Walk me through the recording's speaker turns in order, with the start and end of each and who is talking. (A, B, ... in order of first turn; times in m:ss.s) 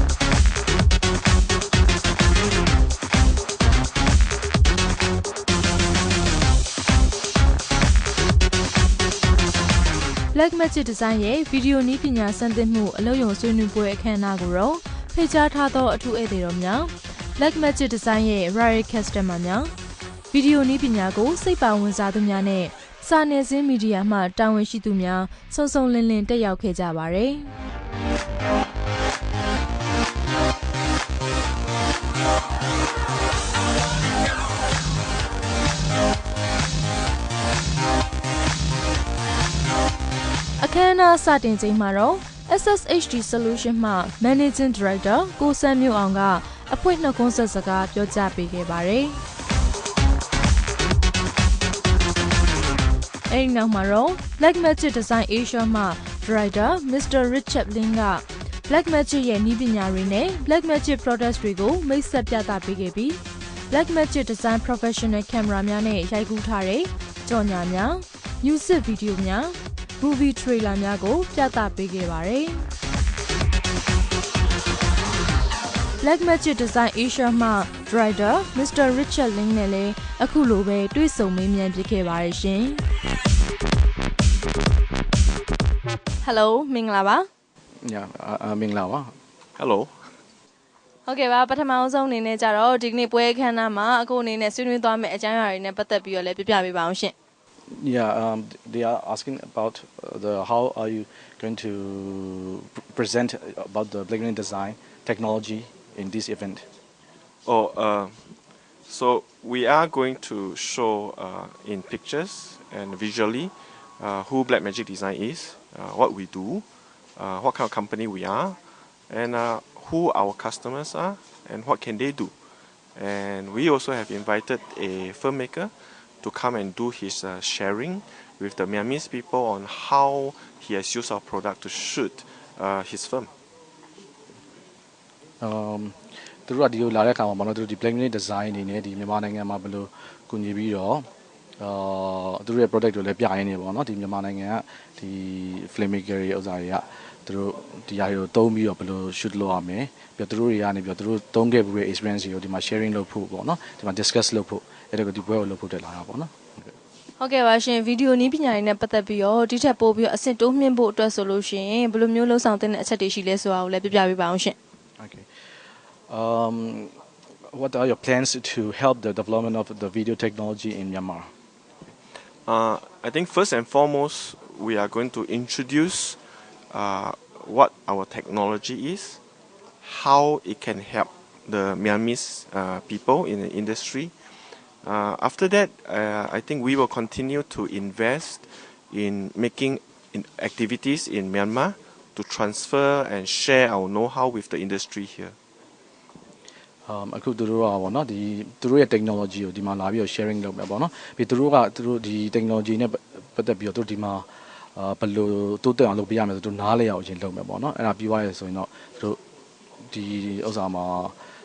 0:10.3-0:19.7 A
0:20.3-0:27.5 A
0:40.6-0:49.2 A
0:53.3-1:12.7 A
1:16.0-1:22.8 A
1:26.2-1:27.2 A
1:27.8-1:29.1 B
1:29.6-1:29.9 C
1:31.1-1:37.1 A
1:37.7-1:46.7 B
1:47.5-1:48.3 C
1:48.9-1:56.6 C
1:57.2-1:58.6 C
1:59.1-2:02.3 C
2:03.0-2:13.3 C
2:15.4-2:21.1 B
2:21.6-2:36.7 B
2:37.2-2:44.6 A
2:45.0-2:45.3 B
2:46.1-2:46.9 B
2:47.5-2:51.3 B
2:52.5-2:56.2 C
2:56.7-2:59.2 C
2:59.8-3:04.2 C
3:04.8-3:15.4 C
3:16.9-3:29.2 B
3:29.9-3:31.1 B